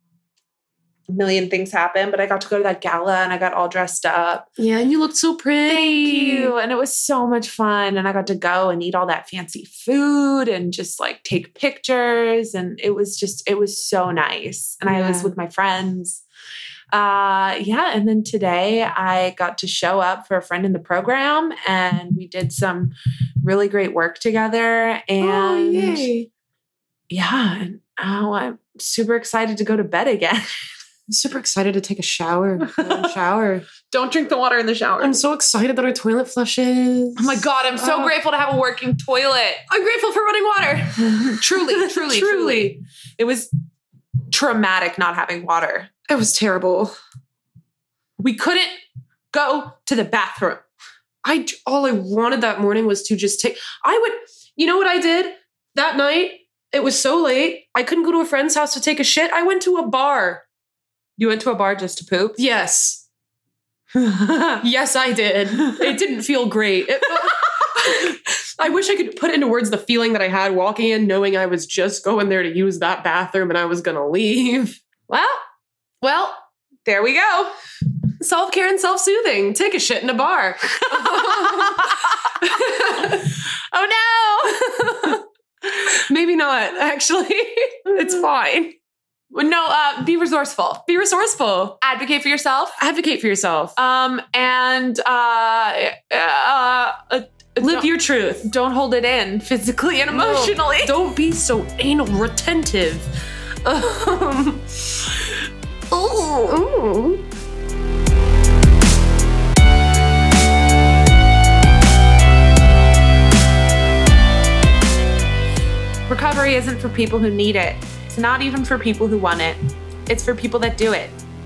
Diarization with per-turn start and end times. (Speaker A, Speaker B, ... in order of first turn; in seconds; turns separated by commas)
Speaker A: 1.1-4.5, Speaker B: 4.6-6.5, Speaker A: 5.7-16.2, Speaker B: 14.9-15.3, Speaker A: 16.9-26.1, Speaker B: 25.2-26.3, Speaker A: 27.1-30.5, Speaker B: 31.1-33.7, Speaker A: 32.6-33.1, Speaker A: 33.9-35.2, Speaker B: 35.0-38.1, Speaker A: 37.2-39.6, Speaker B: 39.7-42.8, Speaker A: 41.1-43.5, Speaker A: 44.3-45.9, Speaker B: 46.1-46.9, Speaker A: 48.2-48.7, Speaker A: 49.3-50.6, Speaker B: 51.2-60.4, Speaker A: 61.2-62.4, Speaker B: 62.4-63.0, Speaker A: 63.9-64.6, Speaker B: 64.6-74.8, Speaker A: 65.6-66.0, Speaker A: 75.1-75.4, Speaker A: 76.0-77.5, Speaker B: 78.2-83.3, Speaker A: 80.9-85.2, Speaker B: 84.5-85.2, Speaker B: 86.0-88.7, Speaker A: 88.0-88.2, Speaker A: 89.3-90.8, Speaker B: 90.9-91.8, Speaker A: 91.8-92.8, Speaker B: 92.8-93.8, Speaker A: 93.8-97.9, Speaker B: 97.6-98.5, Speaker A: 98.4-100.9, Speaker B: 100.1-103.1, Speaker B: 103.6-105.3, Speaker A: 105.9-106.6, Speaker B: 106.4-107.2, Speaker A: 116.1-121.2